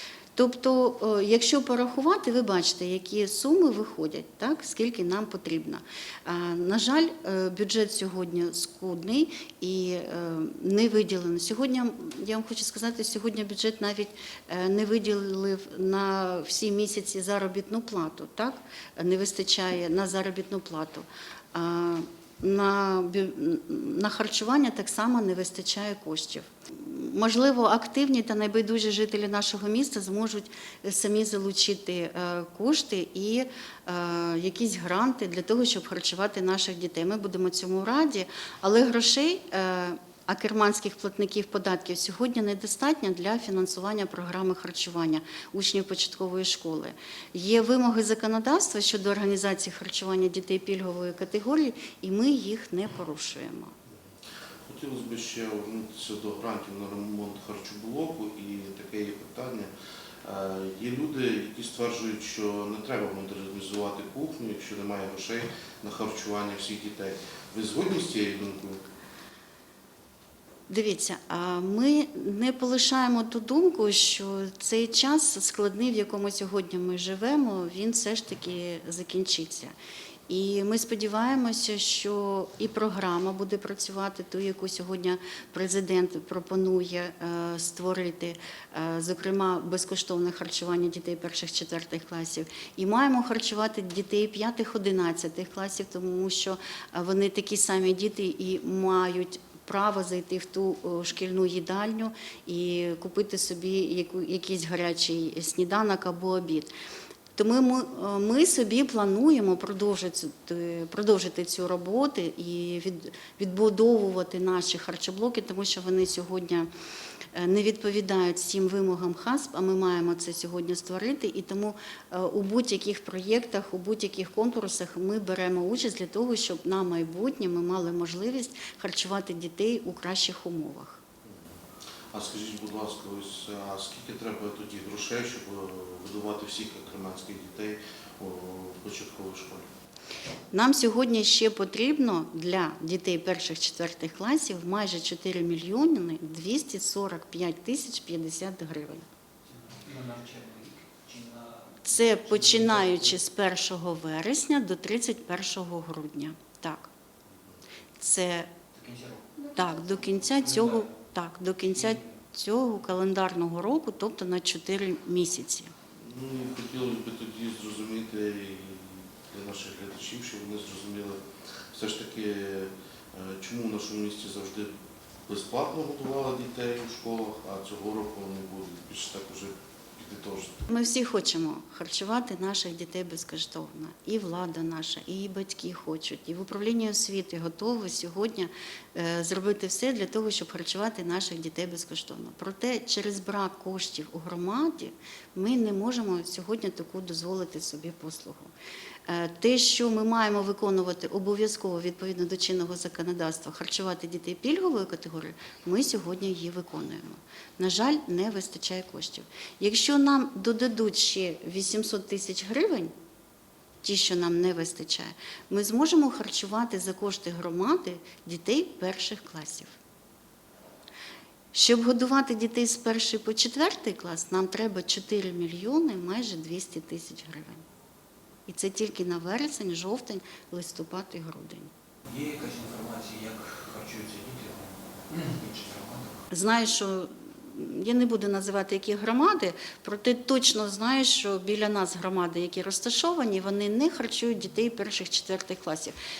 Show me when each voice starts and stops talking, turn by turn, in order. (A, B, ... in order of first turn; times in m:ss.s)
0:00.3-0:53.7 A
0:54.7-0:59.7 B
1:00.2-1:08.8 B
1:10.7-1:19.7 A
1:20.3-1:46.7 A
1:47.4-1:56.7 A
1:57.3-2:11.0 A
2:12.1-2:19.6 B
2:20.5-2:29.0 A
2:29.5-2:33.1 C
2:31.8-2:36.9 A
2:38.0-2:38.5 A
2:38.8-2:39.4 C
2:39.4-2:45.7 A
2:40.4-2:40.8 C
2:45.9-2:51.2 B
2:51.7-2:54.7 B
2:55.3-3:00.6 B
3:00.7-3:18.5 A
3:19.1-3:32.9 A
3:33.8-3:39.8 A
3:41.5-3:47.6 A
3:48.5-3:51.7 A
3:52.1-3:56.2 C
3:56.3-4:05.9 A